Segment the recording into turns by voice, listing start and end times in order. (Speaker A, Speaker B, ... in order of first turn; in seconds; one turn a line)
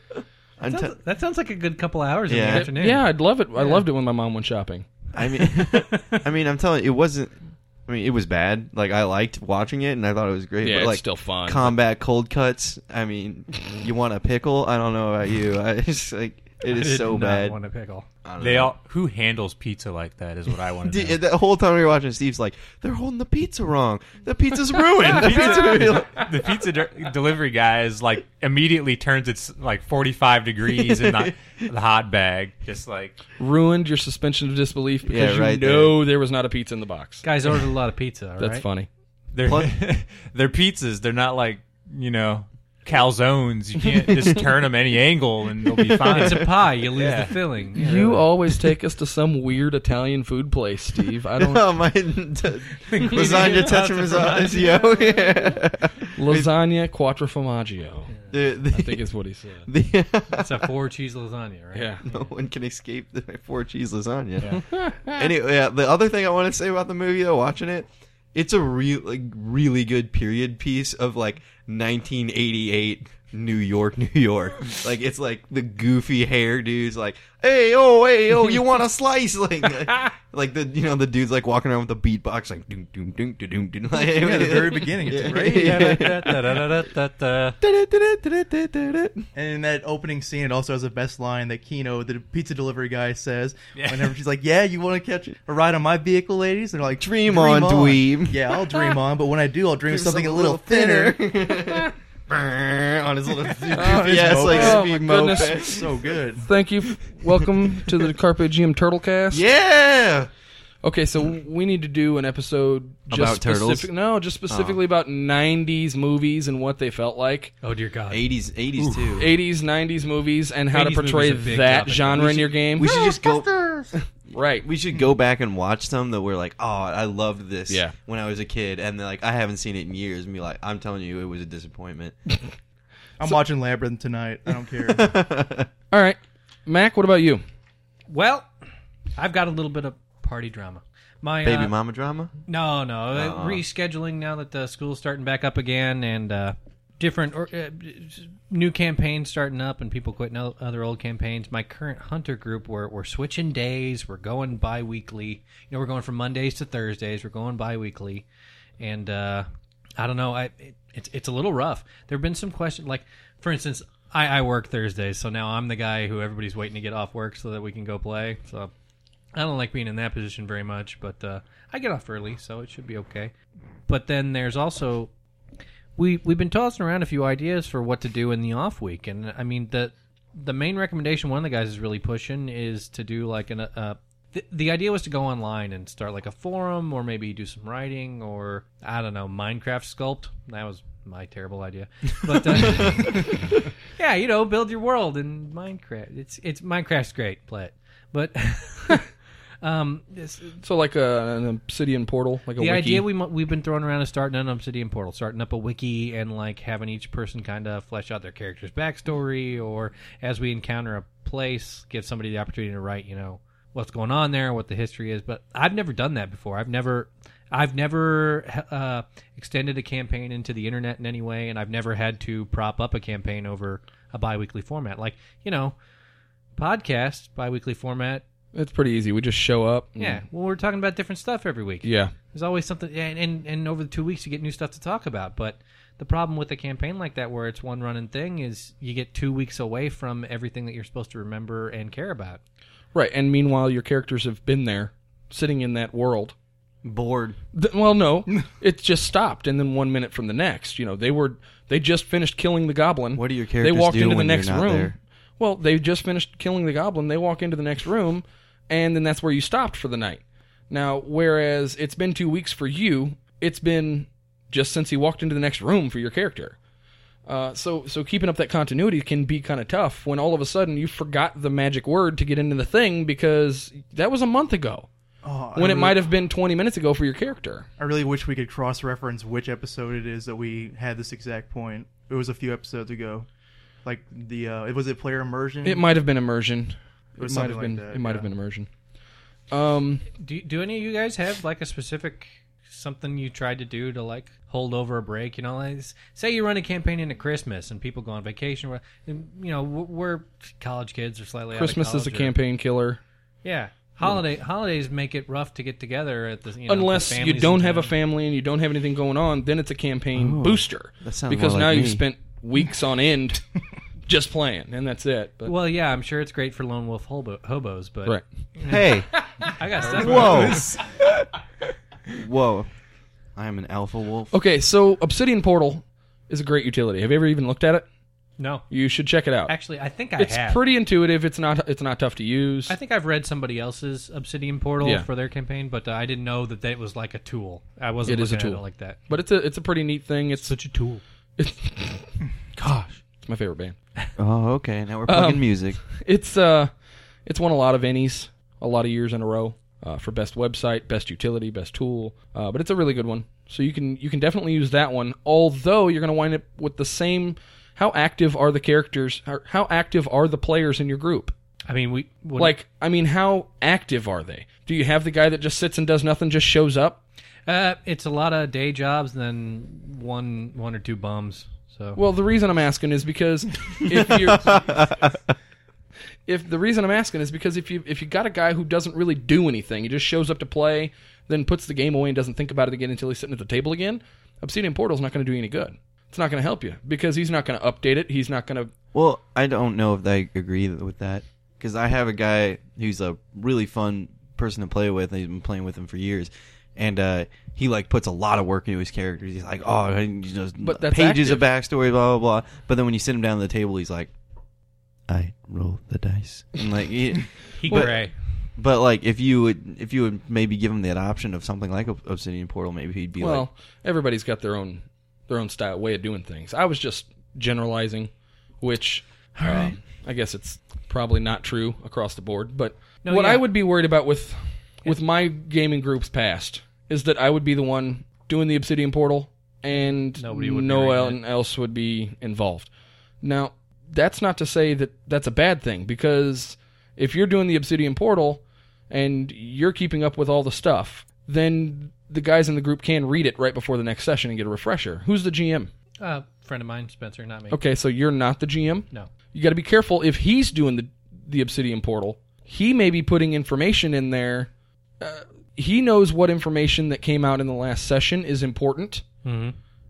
Speaker A: 0.6-0.9
Speaker B: 0.7-3.8
Speaker A: 2.3-2.7
Speaker C: 2.5-4.9
Speaker A: 5.1-17.6
Speaker B: 5.5-6.2
Speaker C: 10.6-11.8
Speaker B: 16.7-18.1
Speaker A: 18.2-18.8
Speaker D: 18.4-21.2
Speaker A: 20.9-26.2
Speaker D: 26.1-33.2
Speaker A: 30.7-31.7
Speaker C: 33.4-37.2
Speaker A: 35.1-36.0
Speaker B: 37.2-38.7
Speaker C: 38.4-38.9
Speaker D: 39.3-47.4
Speaker A: 39.5-39.7
Speaker A: 45.8-46.5
Speaker B: 46.1-48.2
Speaker C: 47.8-51.7
Speaker A: 51.4-56.5
Speaker B: 52.9-55.3
Speaker C: 56.2-58.1
Speaker A: 58.3-59.0
Speaker C: 58.7-59.6
Speaker A: 59.7-60.7
Speaker B: 60.3-62.3
Speaker C: 61.7-62.0
Speaker A: 62.0-86.7
Speaker C: 64.5-65.3
Speaker E: 84.0-86.1
Speaker D: 85.8-87.6
Speaker A: 87.6-89.3
Speaker E: 89.3-101.2
Speaker D: 93.8-94.2
Speaker A: 97.0-98.8
Speaker A: 99.9-106.0
Speaker E: 103.7-106.5
Speaker C: 103.7-105.7
Speaker C: 106.4-109.4
Speaker A: 109.3-110.3
Speaker C: 110.8-117.5
Speaker A: 113.1-113.9
Speaker A: 114.5-114.8
Speaker B: 117.6-118.3
Speaker A: 118.1-119.3
Speaker C: 119.2-123.0
Speaker B: 120.7-122.6
Speaker A: 122.8-123.9
Speaker C: 124.3-124.7
Speaker A: 124.6-132.2
Speaker C: 127.7-128.0
Speaker E: 133.2-135.2
Speaker A: 134.9-135.7
Speaker C: 135.9-137.4
Speaker B: 138.1-138.5
Speaker B: 139.2-141.8
Speaker A: 141.4-142.3
Speaker B: 142.5-158.2
Speaker A: 143.1-143.6
Speaker B: 158.8-159.5
Speaker B: 160.0-168.7
Speaker B: 169.3-173.3
Speaker B: 173.9-175.1
Speaker B: 176.0-193.4
Speaker B: 193.9-199.0
Speaker B: 199.6-200.6
Speaker C: 200.6-203.1
Speaker B: 202.6-225.8
Speaker B: 226.6-228.2
Speaker C: 228.5-230.2
Speaker B: 230.0-242.4
Speaker C: 231.8-232.1
Speaker C: 242.9-246.3
Speaker A: 246.8-247.4
Speaker C: 247.5-266.6
Speaker A: 253.2-255.0
Speaker C: 267.3-274.9
Speaker E: 275.2-276.0
Speaker C: 275.6-277.7
Speaker E: 277.8-283.3
Speaker E: 283.9-285.9
Speaker C: 285.6-288.7
Speaker E: 287.2-288.3
Speaker C: 289.5-290.1
Speaker B: 290.1-302.4
Speaker C: 301.5-303.0
Speaker B: 303.4-307.9
Speaker C: 306.7-313.4
Speaker A: 310.1-312.1
Speaker C: 314.1-315.5
Speaker B: 315.4-318.9
Speaker A: 318.6-319.1
Speaker B: 319.4-320.8
Speaker A: 319.9-320.8
Speaker C: 320.0-320.7
Speaker A: 322.1-322.7
Speaker A: 323.4-324.4
Speaker C: 324.3-327.9
Speaker B: 328.4-328.6
Speaker C: 328.7-329.5
Speaker B: 329.5-330.6
Speaker C: 330.2-332.8
Speaker B: 332.7-339.0
Speaker C: 334.8-335.1
Speaker C: 338.1-340.6
Speaker B: 340.4-341.0
Speaker C: 341.4-342.1
Speaker C: 343.1-343.8
Speaker A: 344.2-345.8
Speaker C: 345.1-346.7
Speaker C: 347.3-361.3
Speaker B: 361.7-362.6
Speaker C: 362.4-367.0
Speaker B: 367.5-372.0
Speaker C: 372.0-374.8
Speaker A: 374.0-375.2
Speaker C: 376.3-388.7
Speaker A: 388.9-404.1
Speaker C: 400.6-401.5
Speaker A: 405.1-408.1
Speaker B: 407.6-408.1
Speaker A: 408.6-413.5
Speaker C: 413.2-432.7
Speaker A: 419.4-419.7
Speaker B: 423.0-423.5
Speaker B: 430.1-431.2
Speaker C: 433.2-445.7
Speaker B: 446.0-447.6
Speaker C: 447.5-459.1
Speaker B: 459.2-459.6